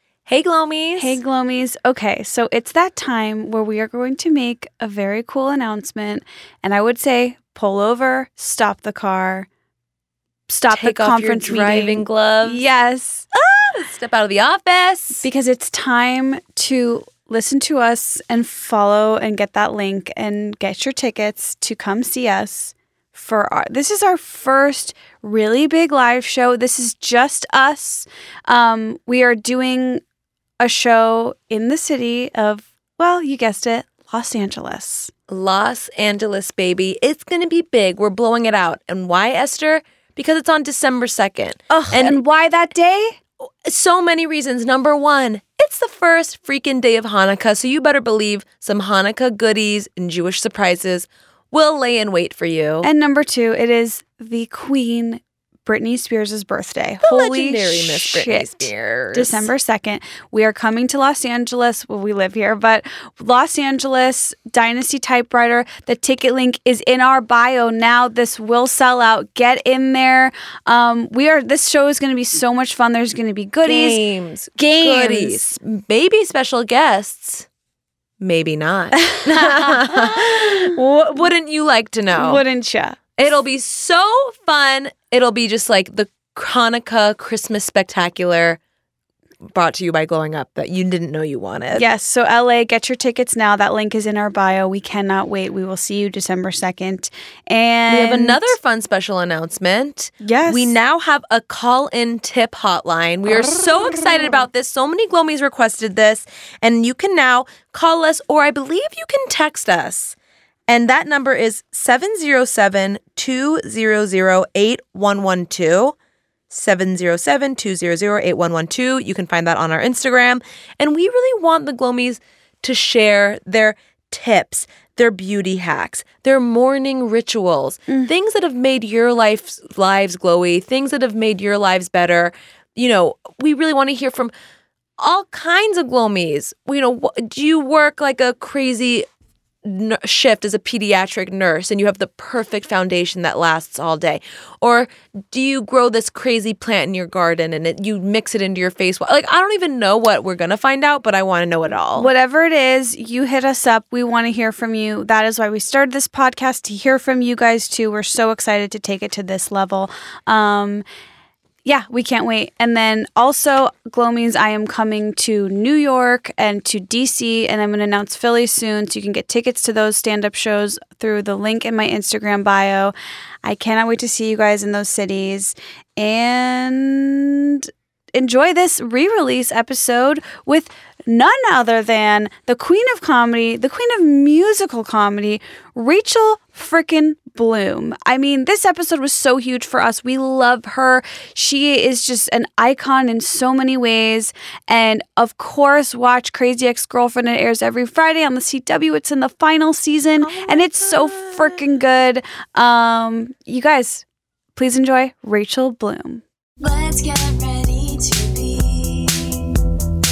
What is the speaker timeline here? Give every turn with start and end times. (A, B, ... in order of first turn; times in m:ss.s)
0:00.3-0:01.2 A
0:01.0-0:09.5 B
0:10.5-0:13.3 B
0:10.7-0:12.6 A
0:13.4-0:15.2 A
0:15.2-0:30.0 B
0:30.6-0:35.1 B
0:35.3-0:42.2 A
0:41.7-0:43.2 B
0:43.6-0:52.9 A
0:52.8-1:14.0 B
0:57.0-0:59.5 A
1:13.6-1:17.5 A
1:14.6-1:15.5 B
1:18.2-1:22.4 A
1:19.6-1:19.9 B
1:22.1-1:23.0 B
1:23.2-1:28.6 A
1:29.5-1:31.9 A
1:31.7-1:38.5 B
1:37.9-1:50.2 A
1:40.2-1:40.7 B
1:50.7-1:56.0 A
1:56.5-2:14.3 A
2:15.0-2:19.1 A
2:19.6-2:32.1 A
2:32.0-2:40.8 B
2:41.6-3:26.2 B
3:20.2-3:21.6 A
3:26.6-3:29.6 C